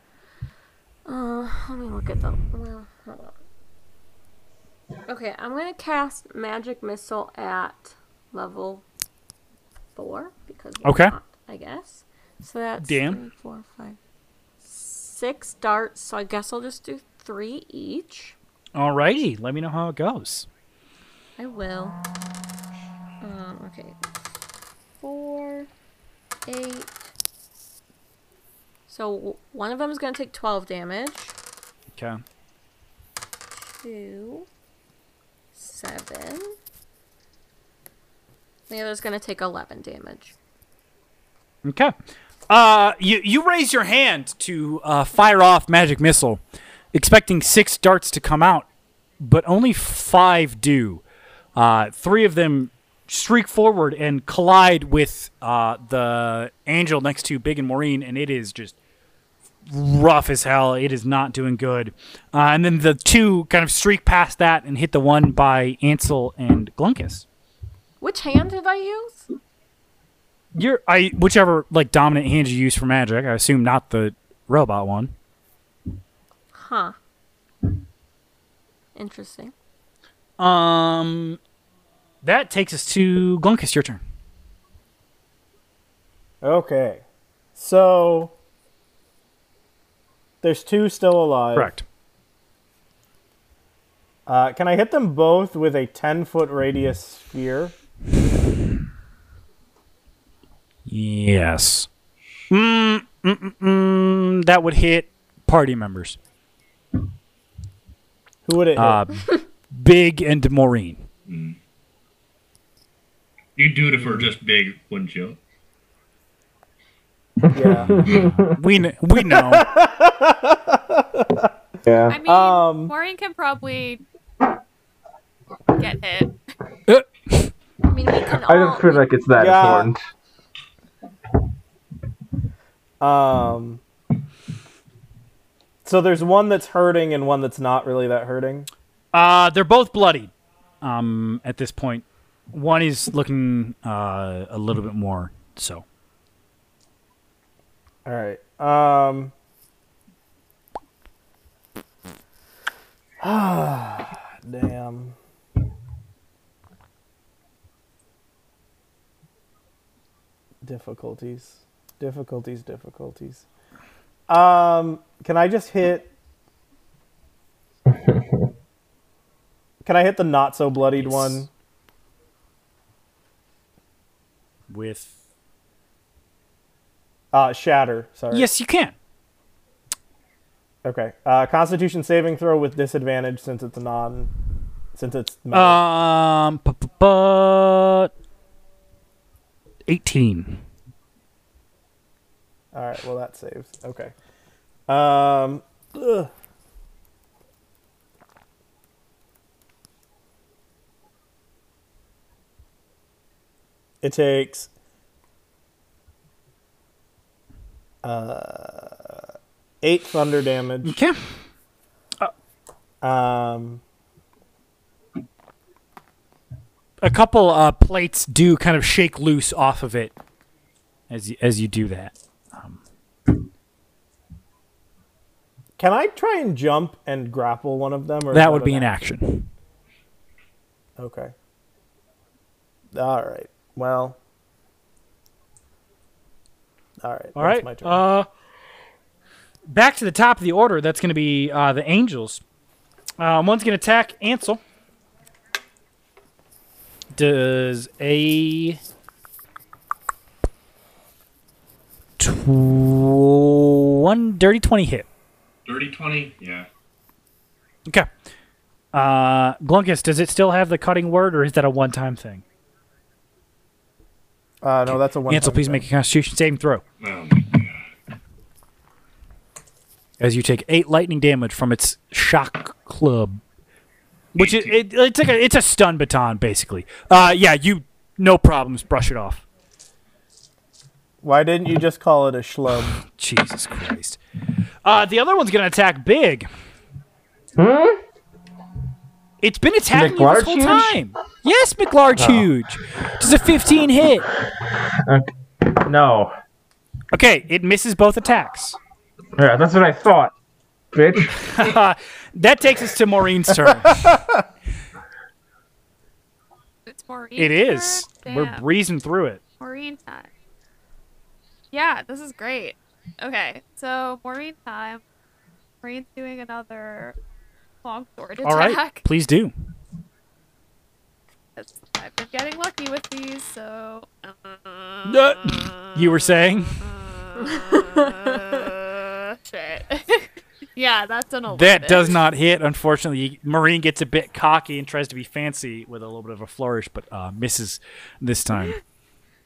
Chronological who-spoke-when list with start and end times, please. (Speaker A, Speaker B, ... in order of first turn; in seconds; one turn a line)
Speaker A: 1.1-3.3
Speaker A: 5.1-8.8
Speaker A: 9.9-14.0
Speaker B: 10.8-11.1
Speaker B: 12.8-13.2
Speaker A: 14.6-18.3
Speaker B: 18.7-20.5
Speaker A: 21.4-22.0
Speaker A: 23.2-24.0
Speaker A: 25.0-25.7
Speaker A: 26.4-27.1
Speaker A: 28.9-31.3
Speaker B: 31.9-32.2
Speaker A: 33.6-34.5
Speaker A: 35.5-36.5
Speaker A: 38.7-40.3
Speaker B: 41.6-41.9
Speaker B: 42.5-46.4
Speaker B: 46.9-48.6
Speaker B: 49.2-51.0
Speaker B: 51.5-58.8
Speaker B: 59.7-67.2
Speaker A: 68.0-69.3
Speaker B: 70.5-75.1
Speaker A: 76.5-77.0
Speaker A: 78.9-79.5
Speaker B: 80.4-81.4
Speaker B: 82.2-84.0
Speaker C: 86.4-87.0
Speaker C: 87.5-88.3
Speaker C: 90.4-91.7
Speaker B: 91.5-91.8
Speaker C: 94.3-97.7
Speaker B: 100.9-101.9
Speaker B: 102.5-106.2
Speaker C: 108.4-109.0
Speaker B: 108.8-111.0
Speaker D: 111.3-111.6
Speaker D: 113.5-115.4
Speaker E: 117.4-118.5
Speaker C: 117.5-118.3
Speaker B: 118.0-119.7
Speaker C: 119.2-121.5
Speaker E: 121.8-122.2
Speaker F: 122.1-124.0
Speaker C: 122.2-122.9
Speaker F: 125.7-126.4
Speaker B: 126.9-127.5
Speaker A: 127.8-129.1
Speaker E: 128.3-130.0
Speaker C: 129.3-129.9
Speaker C: 133.0-133.8
Speaker C: 135.8-138.7
Speaker B: 139.1-140.3
Speaker B: 140.8-145.8
Speaker C: 148.1-149.3
Speaker C: 153.2-155.2
Speaker C: 160.6-163.4
Speaker C: 164.3-166.1
Speaker E: 167.9-168.2
Speaker C: 169.8-171.5
Speaker B: 170.9-171.5
Speaker B: 174.7-175.1
Speaker C: 177.3-178.5
Speaker B: 178.3-178.9
Speaker C: 180.8-184.3
Speaker C: 184.9-185.8
Speaker B: 185.5-188.1
Speaker B: 189.9-190.6
Speaker C: 192.7-194.1
Speaker C: 194.9-196.3
Speaker C: 204.0-204.7
Speaker C: 208.0-209.2
Speaker C: 209.8-211.0
Speaker B: 210.8-211.3
Speaker C: 213.0-213.8
Speaker B: 217.0-220.1
Speaker B: 221.1-222.8
Speaker C: 225.8-228.9
Speaker B: 228.3-229.5
Speaker C: 231.0-231.3
Speaker C: 232.9-234.2
Speaker C: 237.0-238.0
Speaker B: 237.3-238.3
Speaker B: 239.7-242.4
Speaker B: 243.2-244.6
Speaker B: 247.1-248.8
Speaker B: 252.2-255.1
Speaker D: 255.7-256.7
Speaker B: 258.9-262.4
Speaker C: 264.6-265.8
Speaker B: 264.9-266.8
Speaker D: 267.0-267.9
Speaker B: 270.2-273.4
Speaker B: 274.3-279.4
Speaker D: 274.4-274.7
Speaker C: 281.2-283.0
Speaker B: 283.0-284.2
Speaker B: 284.8-286.5
Speaker E: 287.6-288.0
Speaker B: 289.4-294.3
Speaker E: 289.9-291.0
Speaker E: 292.2-292.5
Speaker E: 295.0-296.4
Speaker B: 297.1-298.8
Speaker E: 299.4-300.3
Speaker E: 300.9-301.4
Speaker B: 301.3-304.2
Speaker F: 306.9-308.6
Speaker B: 307.4-309.4
Speaker F: 309.6-310.3
Speaker F: 311.7-315.0
Speaker F: 315.8-317.1
Speaker F: 317.8-319.0
Speaker B: 318.4-319.5
Speaker F: 321.6-326.0
Speaker B: 325.0-326.8
Speaker F: 327.1-332.2
Speaker B: 331.5-338.8